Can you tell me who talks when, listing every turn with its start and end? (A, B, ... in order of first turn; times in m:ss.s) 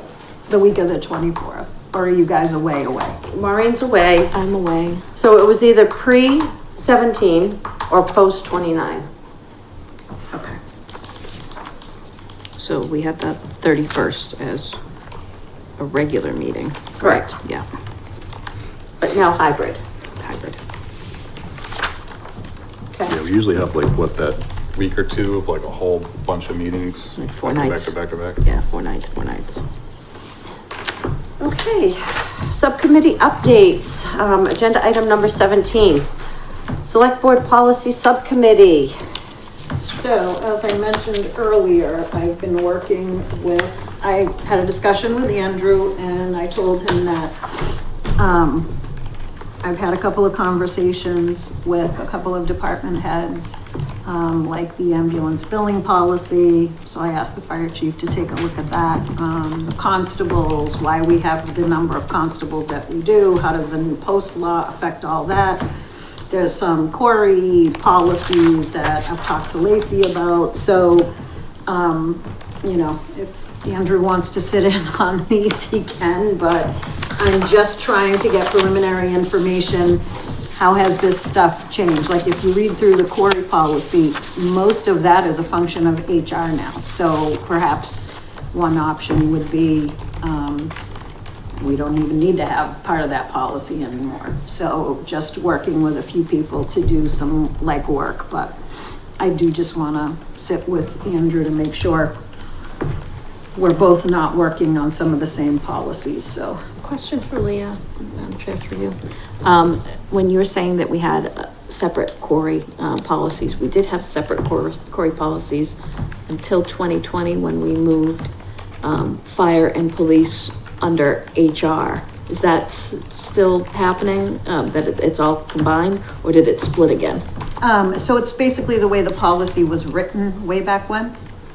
0:00.5-0:03.2 A
0:03.3-0:04.4 B
0:04.3-0:05.0 C
0:05.2-0:09.1 B
0:10.3-0:10.6 A
0:12.6-0:14.8 C
0:15.8-0:17.6 C
0:17.0-0:17.4 B
0:19.0-0:19.8 B
0:20.2-0:20.6 C
0:23.0-0:28.4 D
0:27.2-0:29.6 C
0:31.4-0:36.1 B
0:36.8-0:39.0 B
0:39.7-0:48.7 A
0:49.6-1:05.7 A
1:06.3-1:11.1 A
1:11.7-1:20.0 A
1:20.5-1:30.7 A
1:31.6-1:38.6 A
1:39.2-1:42.2 A
1:43.6-1:46.6 A
1:46.8-1:55.8 C
1:56.3-1:58.3 C
1:58.8-2:07.2 C
2:07.6-2:11.1 A